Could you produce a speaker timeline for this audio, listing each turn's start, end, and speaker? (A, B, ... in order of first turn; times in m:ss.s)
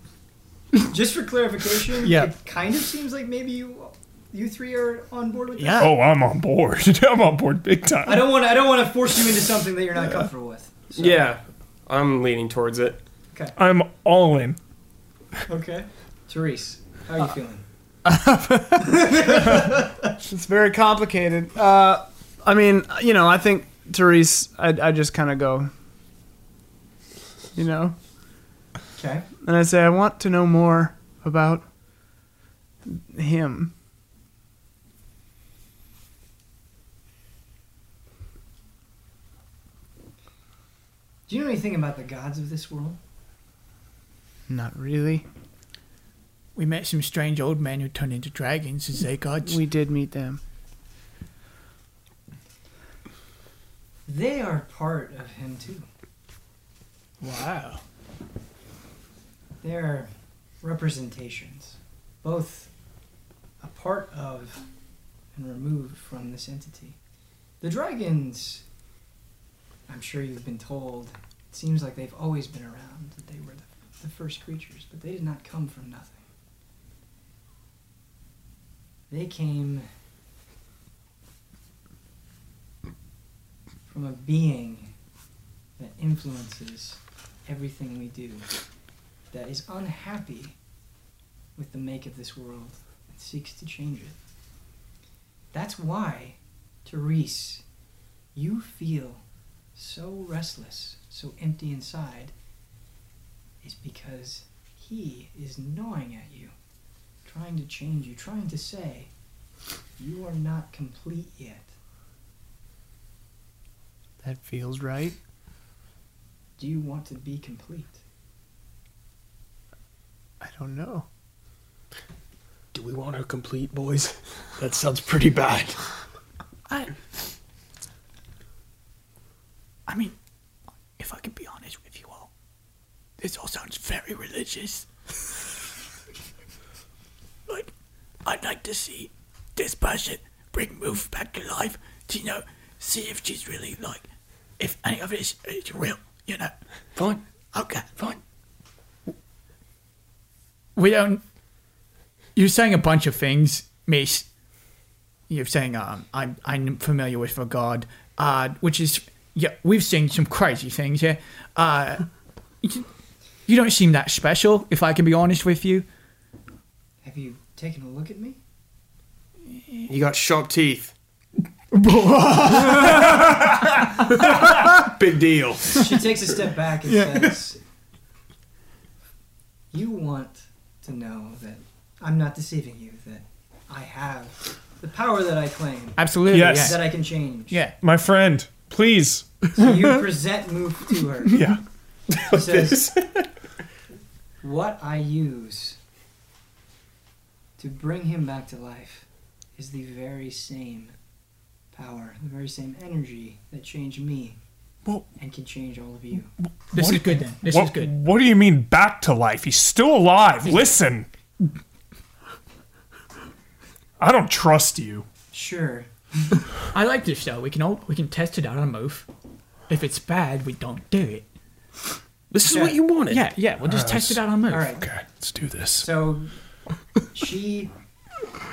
0:00.9-0:05.9 A
0:02.0-0:02.3 B
0:05.6-0:05.9 B
0:05.8-0:08.2 C
0:08.0-0:11.3 A
0:11.0-0:13.0 D
0:13.6-0:14.6 C
0:15.5-0:17.6 A
0:18.0-0:19.6 E
0:19.0-0:19.9 A
0:20.2-0:25.7 E
0:27.5-0:28.0 E
0:29.0-0:29.3 A
0:29.4-0:31.7 E
0:32.8-0:33.7 E
0:41.3-0:43.0 A
0:44.5-0:45.2 E
0:46.6-0:49.6 B
0:49.4-0:50.4 E
0:54.1-0:55.9 A
0:57.2-0:57.8 B
0:59.6-1:00.1 A
1:00.6-1:02.7 A
1:03.6-1:04.6 A
1:05.3-1:07.0 A
1:07.6-1:08.6 A
1:09.9-1:16.2 A
1:19.1-1:19.9 A
1:23.9-1:24.9 A
1:25.8-1:28.5 A
1:29.3-1:30.6 A
1:31.6-1:34.2 A
1:35.5-1:37.6 A
1:38.4-1:39.2 A
1:39.8-1:42.3 A
1:43.6-1:46.5 A
1:47.2-1:49.1 A
1:50.0-1:51.7 A
1:54.2-1:55.2 E
1:56.6-1:58.0 A
2:00.4-2:01.1 E
2:02.7-2:05.8 D
2:06.7-2:06.9 B
2:09.9-2:10.2 B
2:11.0-2:12.3 B
2:13.2-2:14.9 B
2:18.2-2:24.0 B
2:24.6-2:26.5 B
2:27.0-2:27.2 D
2:27.5-2:28.2 B
2:30.8-2:31.2 B
2:32.4-2:34.3 B
2:35.3-2:42.1 B
2:42.6-2:42.9 B
2:43.5-2:45.9 B
2:47.0-2:48.4 A
2:49.9-2:50.9 D
2:51.7-2:53.4 B
2:54.1-2:55.9 D
2:55.7-2:57.6 A
2:59.7-3:07.6 A
3:06.0-3:06.9 B
3:06.3-3:06.8 C
3:07.8-3:09.4 C
3:09.5-3:11.4 A
3:11.3-3:11.6 C
3:12.1-3:13.3 D
3:12.3-3:12.9 A
3:14.4-3:15.8 A
3:17.6-3:19.1 A
3:19.6-3:20.9 A
3:21.7-3:24.4 A
3:25.2-3:26.3 A
3:26.7-3:31.1 C
3:26.7-3:27.9 B
3:34.0-3:35.1 C
3:35.3-3:35.9 A
3:36.7-3:39.1 B
3:39.7-3:41.2 B
3:42.3-3:43.2 D
3:42.4-3:42.8 A
3:43.1-3:44.7 B
3:43.6-3:44.2 C
3:44.5-3:44.9 A
3:44.8-3:45.9 C
3:45.8-3:46.3 A
3:47.1-3:47.7 A